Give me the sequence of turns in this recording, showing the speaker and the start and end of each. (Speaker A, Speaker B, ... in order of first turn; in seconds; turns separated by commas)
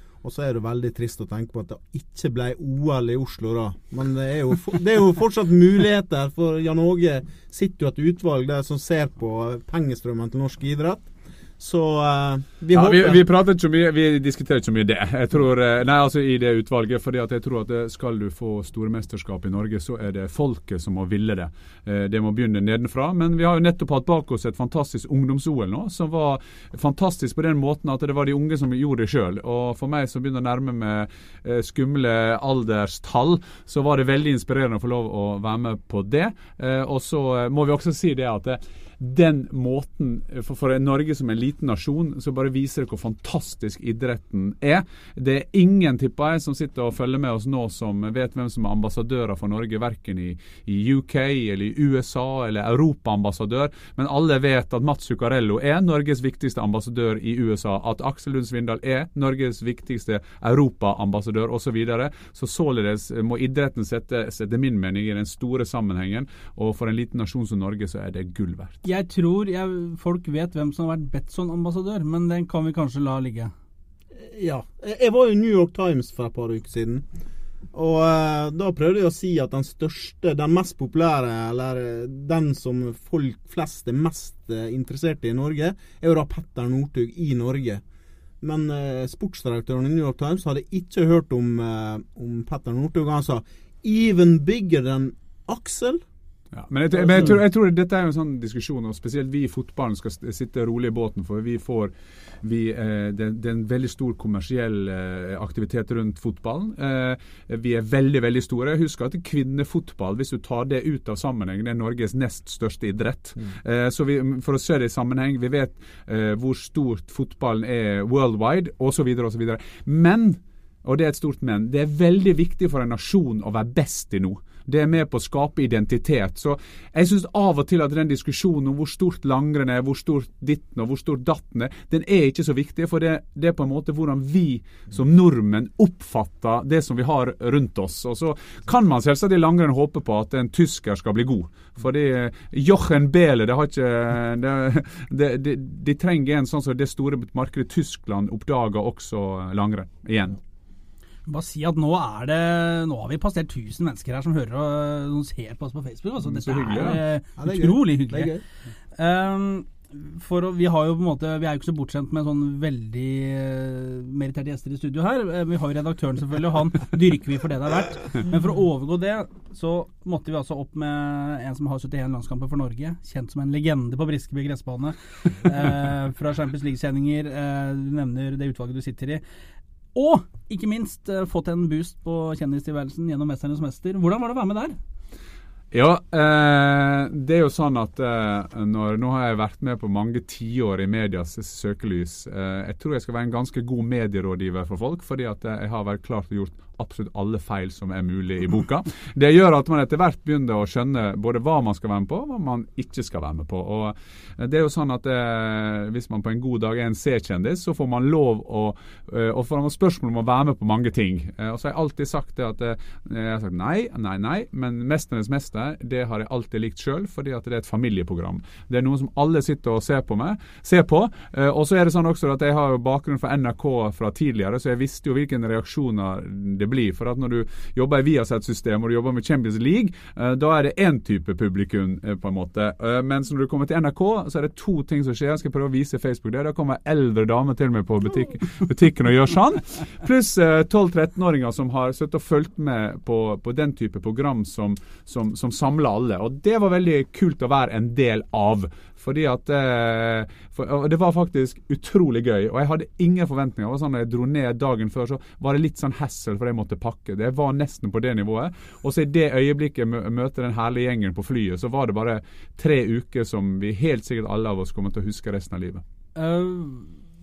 Speaker A: 0.2-13.2, Speaker B: 12.7-68.8, Speaker C: 68.8-73.5, Speaker A: 74.2-77.1, Speaker A: 77.7-87.8, Speaker A: 88.4-96.0, Speaker B: 96.5-150.4, Speaker A: 97.0-97.4, Speaker C: 151.3-158.3, Speaker B: 156.2-157.0, Speaker A: 157.4-158.4, Speaker C: 158.9-179.2, Speaker C: 179.9-184.8, Speaker B: 185.7-265.8, Speaker C: 266.1-266.9